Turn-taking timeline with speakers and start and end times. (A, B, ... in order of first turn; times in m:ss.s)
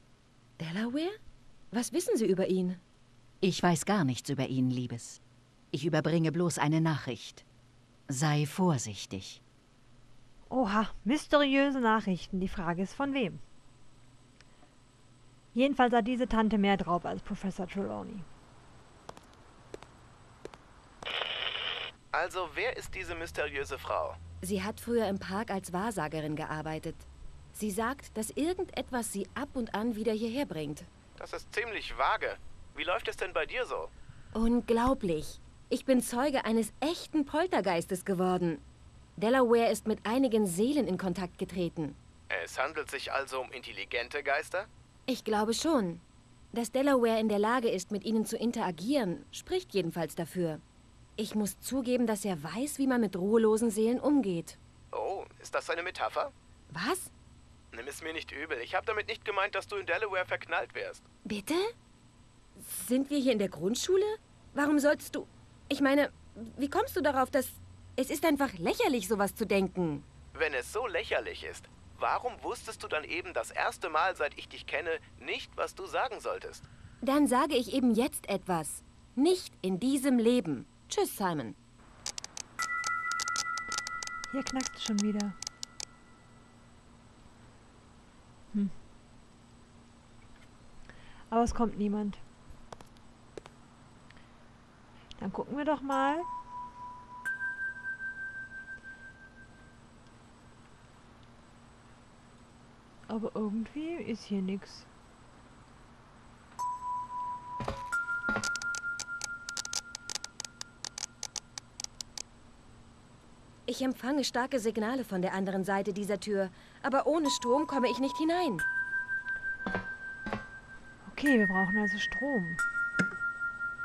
0:00.6-0:01.2 A
0:01.7-0:02.8 A
0:03.4-0:05.2 B
0:05.7-0:07.4 B
0:08.1-0:09.4 B
0:10.5-0:13.4 C
0:15.5-0:18.3 C
0:22.1-0:24.2 D
0:24.4-0:30.9 A
0:31.2-0:33.9 D
0:34.3-0:38.6 A
0:39.2-0:42.0 A
0:42.3-0:44.7 D
0:45.1-0:50.6 A
0:51.2-0:54.6 A
0:54.9-0:56.3 D
0:56.7-0:57.1 A
0:57.7-1:01.0 D
1:01.2-1:01.7 A
1:02.6-1:10.1 A
1:10.3-1:16.6 D
1:17.0-1:21.6 A
1:24.3-1:25.4 C
1:31.3-1:32.2 C
1:35.2-1:36.3 C
1:43.1-1:44.9 C
1:53.7-1:58.6 A
2:01.1-2:02.6 C